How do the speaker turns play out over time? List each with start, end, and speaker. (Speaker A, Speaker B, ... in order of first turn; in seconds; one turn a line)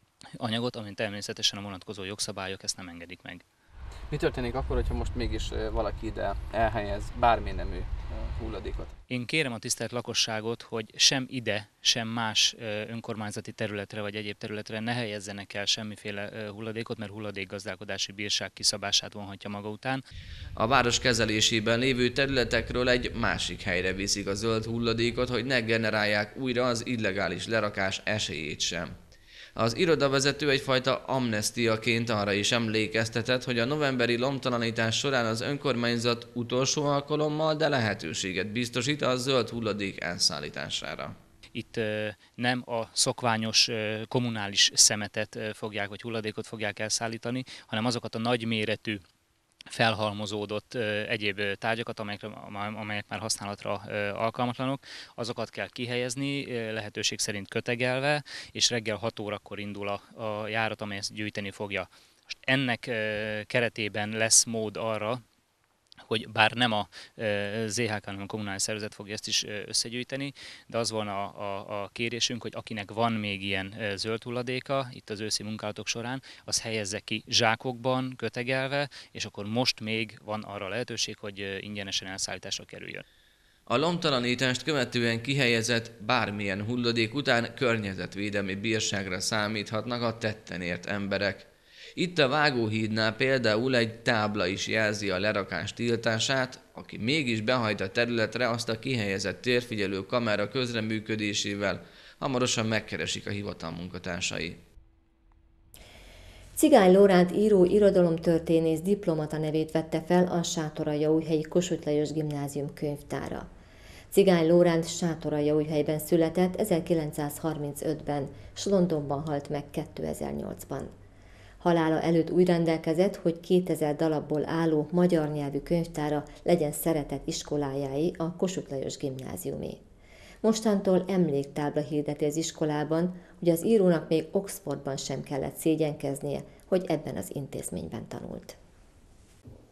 Speaker A: 0.4-3.4
Speaker B: 4.1-8.9
Speaker A: 9.1-20.0
Speaker C: 20.6-28.9
Speaker C: 29.6-41.1
Speaker A: 41.5-49.0
Speaker A: 49.7-61.9
Speaker A: 62.5-65.2
Speaker A: 66.1-83.0
Speaker C: 83.7-104.6
Speaker D: 106.6-113.5
Speaker D: 114.1-120.9
Speaker D: 121.6-129.8
Speaker D: 130.4-138.6